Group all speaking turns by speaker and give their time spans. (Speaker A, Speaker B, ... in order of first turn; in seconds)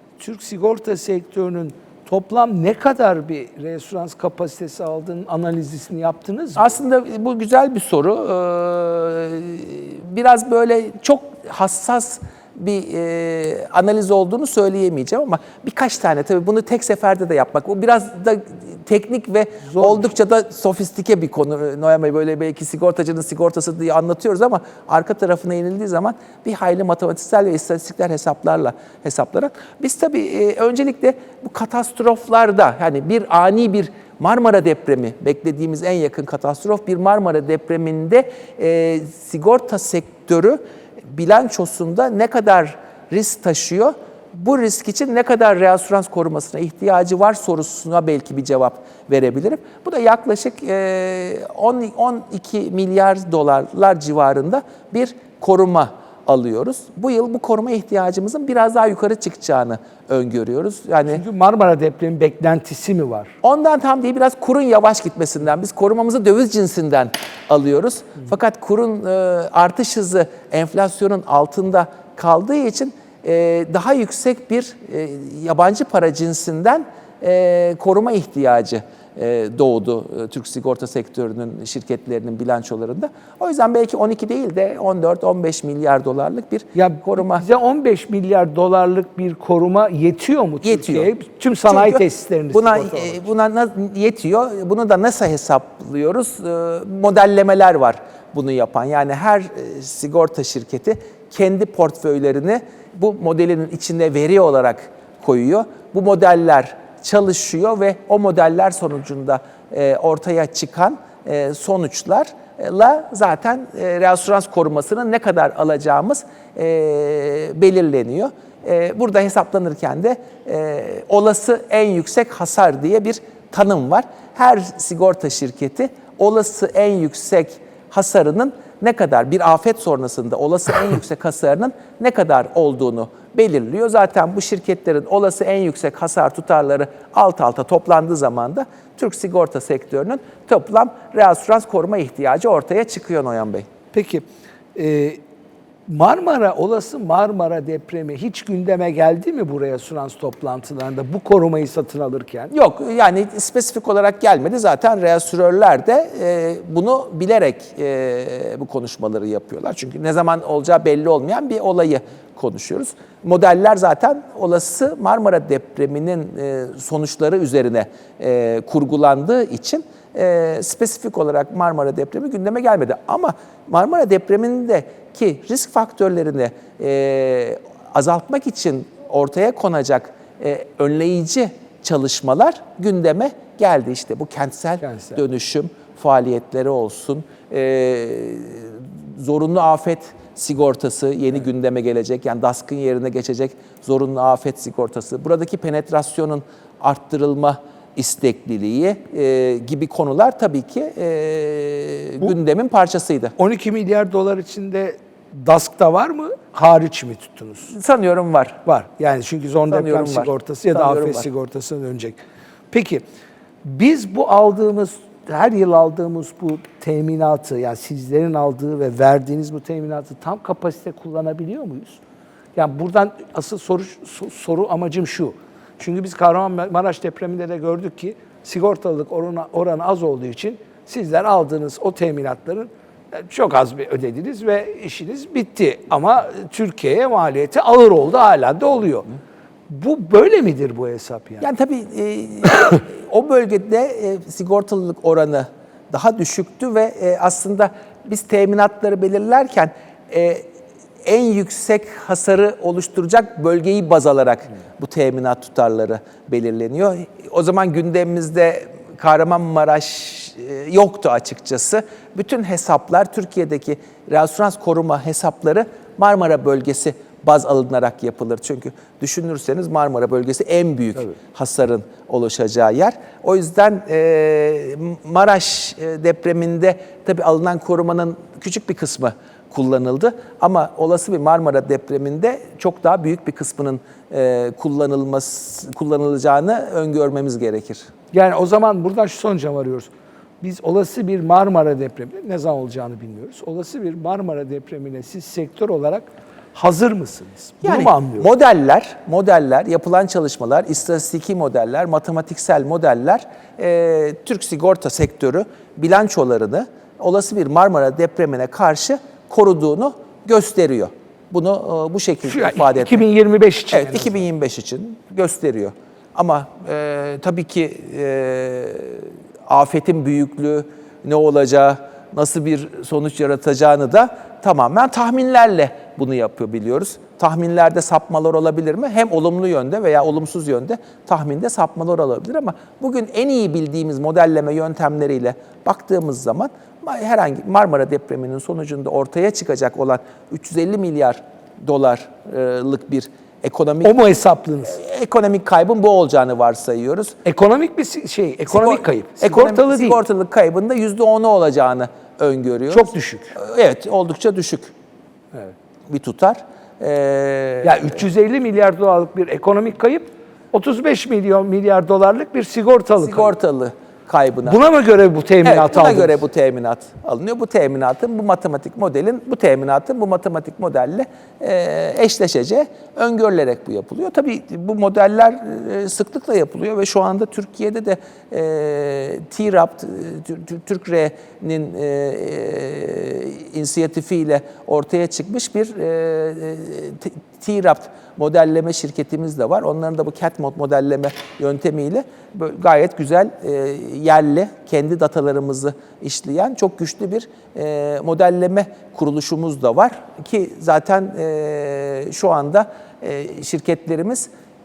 Speaker A: 0.2-6.7, 19.7-20.1, 61.1-63.3, 86.8-93.2, 143.9-145.2, 145.9-152.5, 184.8-185.2, 203.4-207.7, 208.7-212.2, 212.7-213.0, 213.6-222.0, 222.6-239.1, 239.7-241.5, 288.1-298.3, 312.2-314.2, 343.8-344.8, 347.2-350.0, 352.7-353.4, 357.6-363.3, 364.4-366.2
Speaker B: 6.6-61.2, 63.4-87.5, 90.6-91.1, 91.7-143.7, 152.5-203.3, 207.7-208.6, 209.7-211.3, 241.4-250.5, 251.1-287.9, 297.6-313.1, 313.7-344.0, 344.7-347.2, 348.5-354.7, 355.9-357.8, 363.0-364.6, 365.4-404.3